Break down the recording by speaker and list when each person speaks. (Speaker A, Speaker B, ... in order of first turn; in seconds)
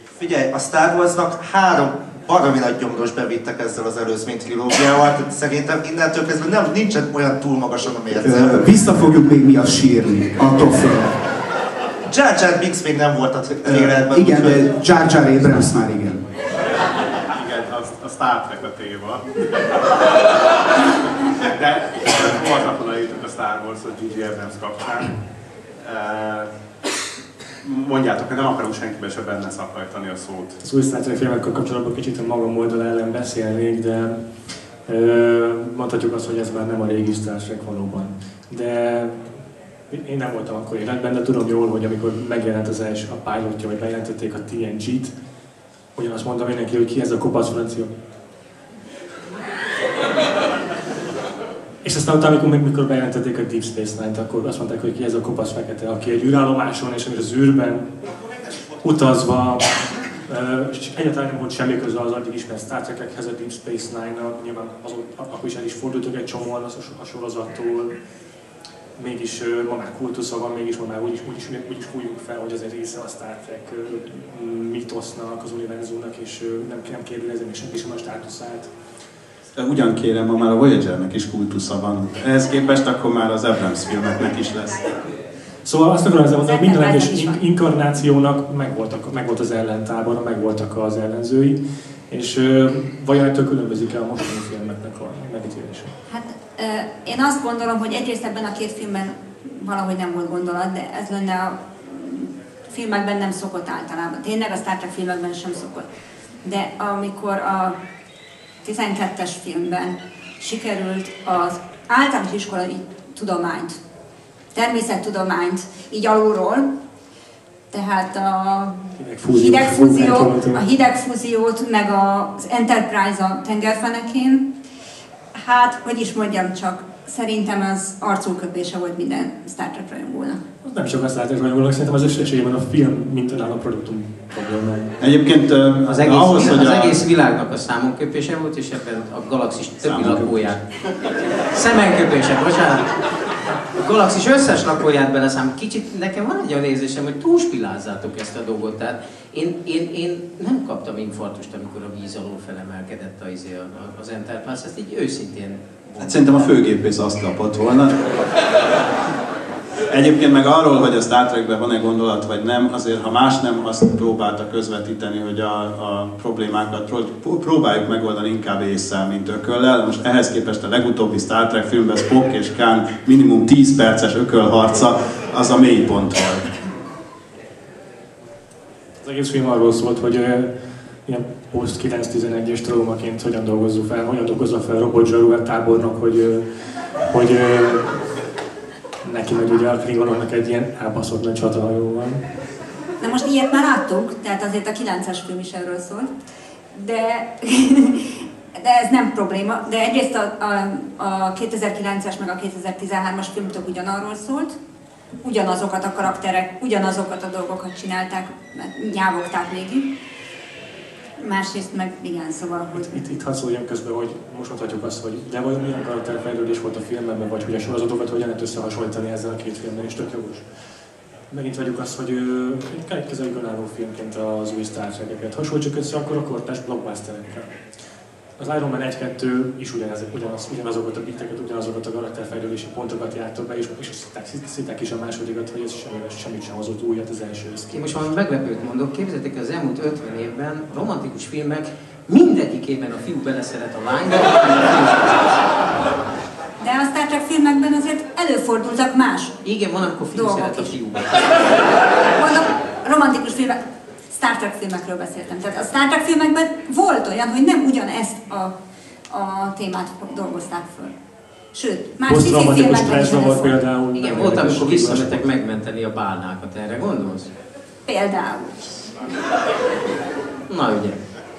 Speaker A: 0.2-8.7, 12.1-15.5, 58.2-59.1
Speaker B: 8.2-11.2, 13.6-16.3
Speaker C: 17.3-19.7, 21.4-25.2, 25.8-26.5, 27.6-30.6
Speaker D: 30.6-34.2, 34.9-39.3, 39.9-45.1, 46.0-47.9, 51.8-57.9, 58.8-59.7, 60.3-68.0, 69.0-78.7, 85.7-95.9, 119.0-120.6, 130.6-134.9, 179.0-180.5, 181.1-186.5, 187.1-188.0, 189.0-192.2, 212.7-220.5, 221.3-227.5, 228.4-237.8, 262.1-265.3
Speaker E: 79.5-85.0, 135.0-137.0, 139.8-140.6, 156.0-158.2, 159.9-176.6
Speaker F: 86.4-87.4, 96.1-105.9, 106.4-107.8, 108.6-113.8, 114.5-116.7, 117.7-118.8, 119.3-124.5, 125.3-130.4, 193.0-196.1, 196.7-204.6, 205.2-209.9, 211.2-212.9, 246.6-249.3, 250.1-250.7, 252.1-258.5, 259.1-260.9, 261.5-263.6, 267.9-269.0
Speaker G: 135.9-140.6, 141.4-143.1, 143.7-156.5, 237.7-245.4, 249.4-251.7, 264.0-267.3, 270.5-271.0